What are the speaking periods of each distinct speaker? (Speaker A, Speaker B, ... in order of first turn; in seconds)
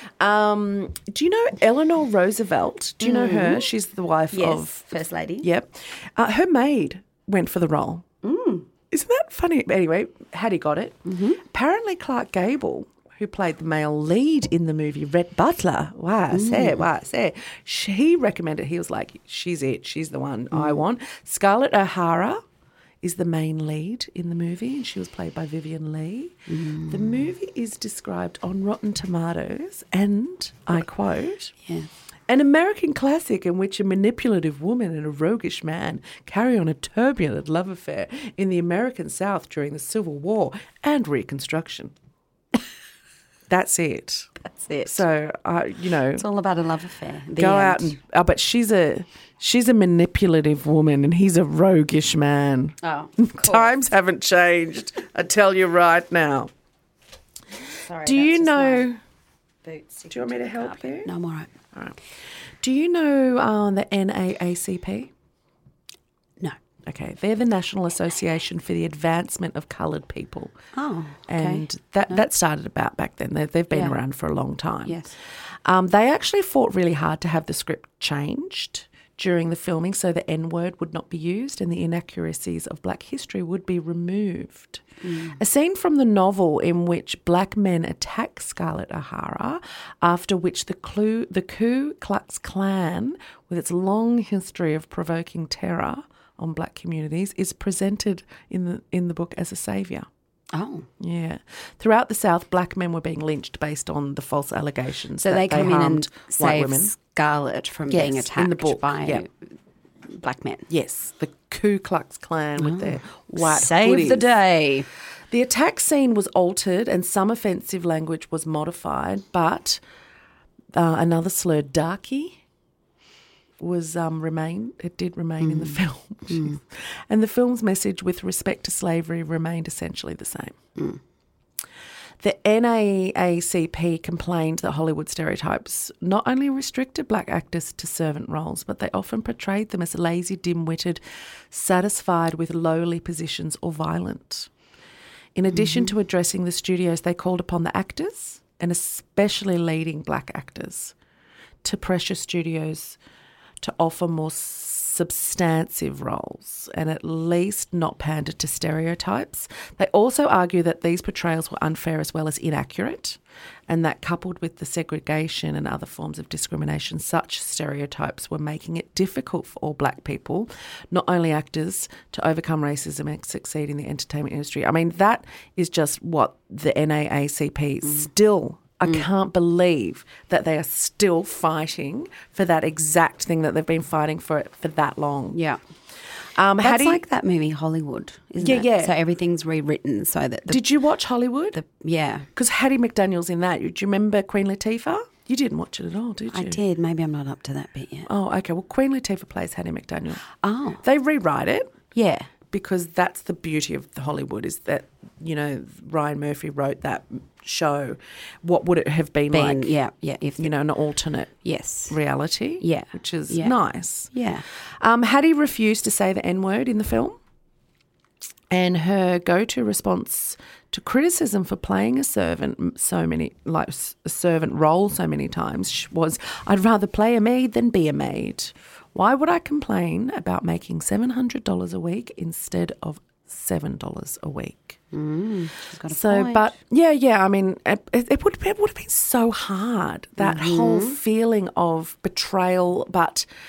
Speaker A: 0.2-4.8, 5.4-8.1, 8.9-22.4, 23.0-31.5, 32.3-41.9, 43.5-44.3, 44.9-46.2, 47.4-56.5, 58.0-59.0, 60.1-61.1, 62.6-65.1, 66.8-70.5, 71.3-75.0, 75.6-84.8, 85.3-100.1, 101.0-106.9, 107.9-109.2, 110.7-114.3, 115.3-119.8, 120.7-122.4, 123.6-130.6, 132.2-144.5, 145.3-150.9, 151.6-153.0, 153.6-185.4, 186.3-187.0, 188.4-188.9, 190.5-191.6, 192.3-196.6, 198.1-200.2, 200.8-201.7, 202.5-209.7, 210.4-211.3, 211.9-214.1, 214.8-217.2, 218.5-234.8, 235.9-243.3
Speaker B: 3.0-3.6, 4.3-5.5, 8.2-8.7, 11.0-11.4, 16.3-16.9, 20.5-20.8, 26.5-27.3, 31.6-31.9, 44.5-45.0, 46.1-48.0, 52.8-53.8, 57.8-58.9, 59.6-61.5, 70.7-72.2, 73.7-74.0, 74.8-75.1, 85.0-85.4, 100.5-100.9, 105.2-109.3, 110.1-110.7, 112.6-114.9, 125.4-126.6, 130.8-131.0, 145.5-145.9, 185.3-185.6, 186.6-190.6, 191.5-192.3, 196.3-198.1, 200.4-200.8, 201.9-202.3, 209.3-210.5, 211.4-212.0, 212.6-213.6, 214.1-214.4, 234.9-236.5, 240.2-241.0